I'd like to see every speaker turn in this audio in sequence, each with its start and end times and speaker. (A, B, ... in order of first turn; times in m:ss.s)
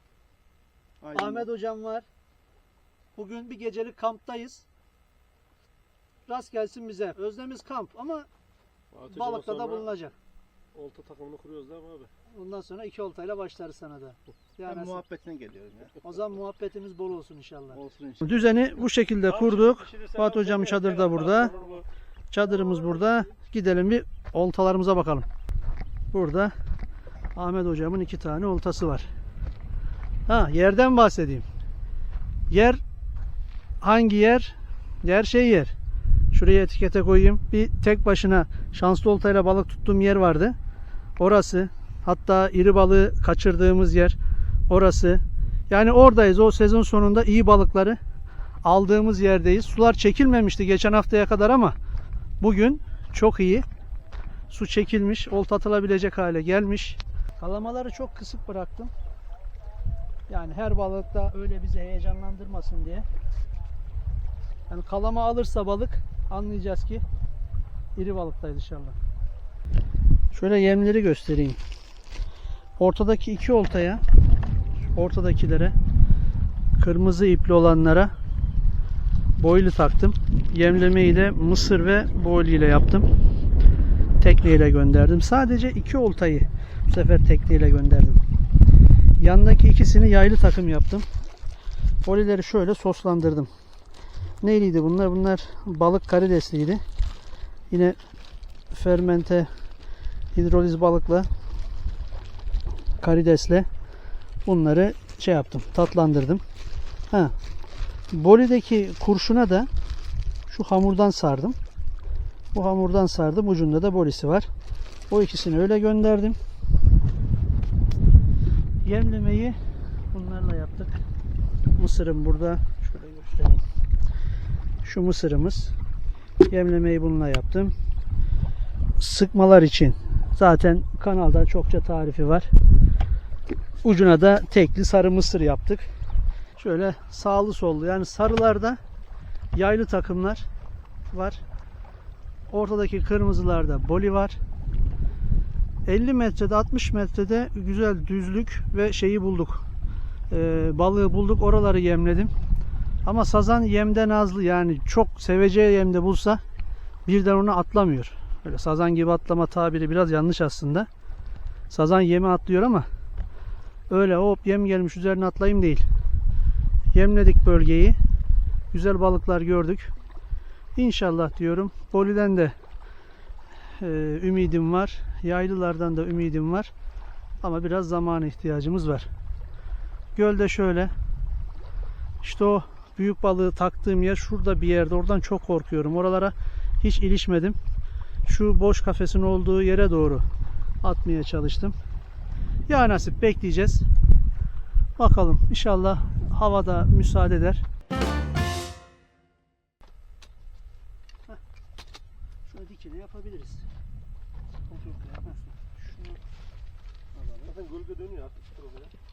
0:01.0-0:01.5 A
0:01.1-0:02.0 B
0:03.2-0:04.6 B
0:06.3-0:08.3 B
0:08.9-0:09.9 C
0:09.1-0:10.1 B
0:10.7-0:12.1 C
0:12.3-0:15.0 B
0:14.6-0:16.2 A
0:16.0-0:21.5 B
0:17.7-0:18.5 A
0:19.3-0:21.8 C
0:22.3-0:25.3 B
0:26.1-0:26.5 B
0:27.4-0:29.1 B
0:30.3-0:31.5 B
0:32.5-0:32.8 B
0:33.8-0:35.7 B
0:36.3-0:40.6 B
0:41.2-0:44.2 B
0:44.7-0:48.0 B
0:48.6-0:51.8 B
0:52.4-0:53.6 B
0:54.5-0:58.9 B
1:00.3-1:03.1 B
1:04.7-1:07.0 B
1:08.0-1:09.0 B
1:10.3-1:11.6 B
1:12.8-1:14.0 B
1:14.9-1:15.8 B
1:16.8-1:18.1 B
1:19.4-1:23.1 B
1:24.2-1:28.2 B
1:29.2-1:31.1 B
1:32.0-1:33.5 B
1:34.4-1:36.8 B
1:37.7-1:38.0 B
1:38.7-1:39.5 B
1:40.3-1:41.3 B
1:43.0-1:43.7 B
1:44.4-1:46.4 B
1:48.1-1:49.7 B
1:50.5-1:51.6 B
1:52.5-1:54.5 B
1:55.1-1:56.4 B
1:58.8-1:59.6 B
2:00.1-2:01.0 B
2:01.7-2:03.6 B
2:04.8-2:05.8 B
2:06.5-2:07.7 B
2:09.0-2:12.5 B
2:13.8-2:15.9 B
2:16.6-2:18.8 B
2:19.5-2:20.5 B
2:21.1-2:21.4 B
2:22.5-2:24.4 B
2:25.9-2:29.6 B
2:30.3-2:32.3 B
2:33.0-2:36.4 B
2:37.1-2:40.9 B
2:41.7-2:42.9 B
2:43.9-2:45.9 B
2:46.9-2:48.0 B
2:48.7-2:49.9 B
2:50.8-2:52.6 B
2:53.8-2:56.7 B
2:57.4-2:59.1 B
3:00.2-3:00.9 B
3:02.2-3:07.6 B
3:08.3-3:10.3 B
3:10.8-3:11.8 B
3:12.7-3:13.9 B
3:15.0-3:17.6 B
3:22.5-3:23.7 B
3:24.7-3:25.3 C
3:25.2-3:26.2 B
3:27.1-3:27.5 B
3:27.5-3:28.9 C